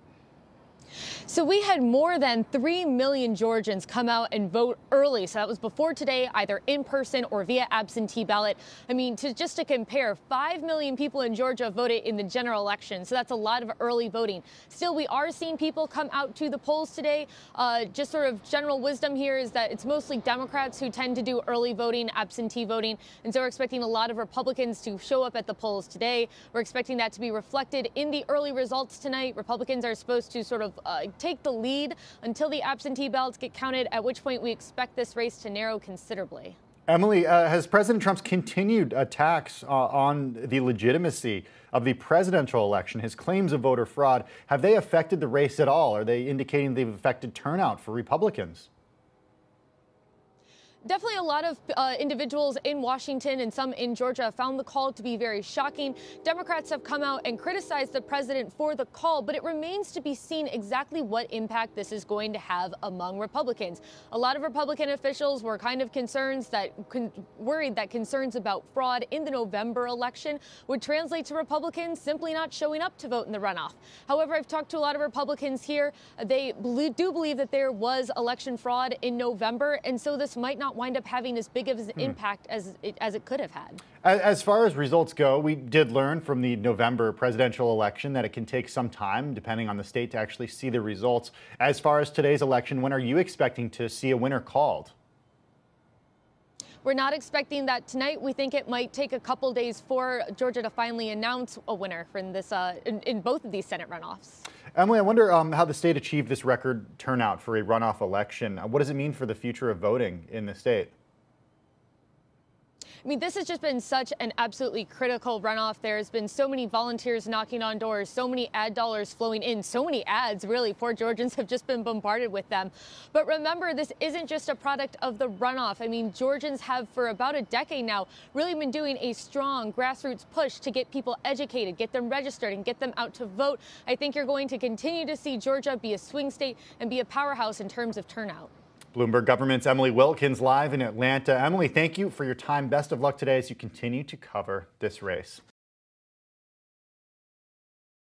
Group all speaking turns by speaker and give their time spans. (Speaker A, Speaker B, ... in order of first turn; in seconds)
Speaker A: 1.2-36.6, 50.8-83.8, 96.8-104.4, 113.0-138.5
Speaker B: 36.9-48.7, 84.0-94.9, 104.7-110.9, 138.9-145.4